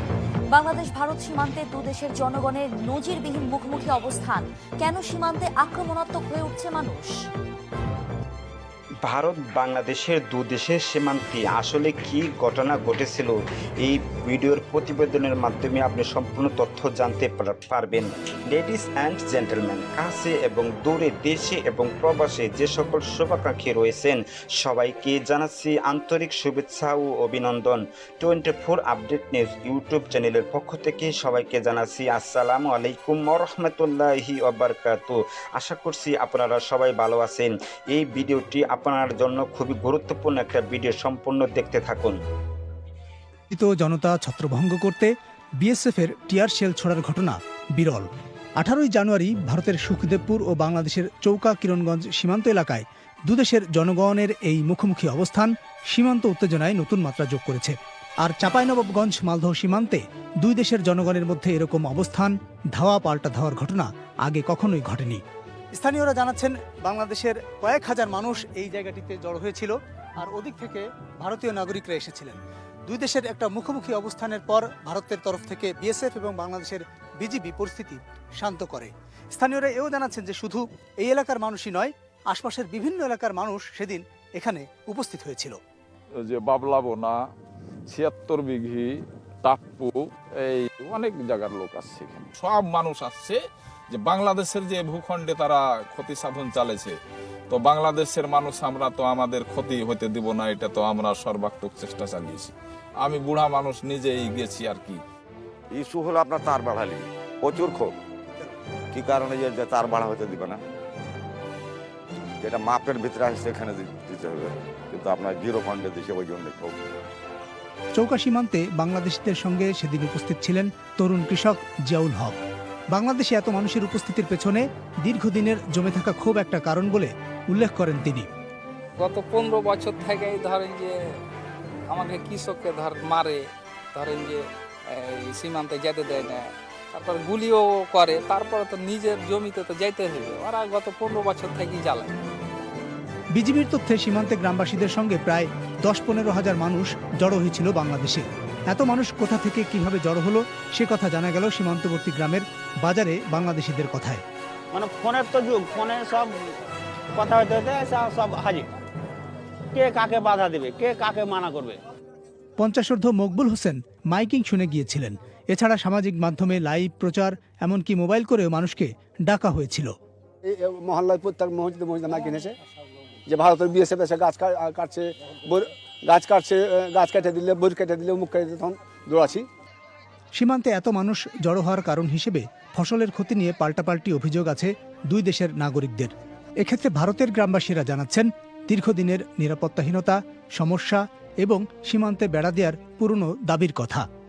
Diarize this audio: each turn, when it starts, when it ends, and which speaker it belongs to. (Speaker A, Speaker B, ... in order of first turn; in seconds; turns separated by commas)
Speaker A: 0.5-7.1, Speaker B: 9.1-42.2, Speaker C: 43.5-48.0, Speaker C: 48.6-65.2, Speaker C: 65.7-85.6, Speaker D: 86.2-87.1, Speaker D: 87.9-88.9, Speaker D: 89.4-93.4, Speaker D: 93.9-97.0, Speaker D: 97.5-105.0, Speaker E: 105.7-107.9, Speaker E: 108.9-110.6, Speaker E: 112.4-116.9, Speaker C: 117.9-122.4, Speaker C: 122.9-128.3, Speaker F: 129.0-131.0, Speaker F: 131.9-142.2, Speaker C: 143.3-154.2, Speaker G: 154.7-156.4, Speaker G: 157.1-158.7, Speaker G: 159.7-161.8, Speaker C: 162.6-169.9, Speaker H: 170.5-172.5, Speaker H: 173.3-179.4, Speaker C: 180.3-194.0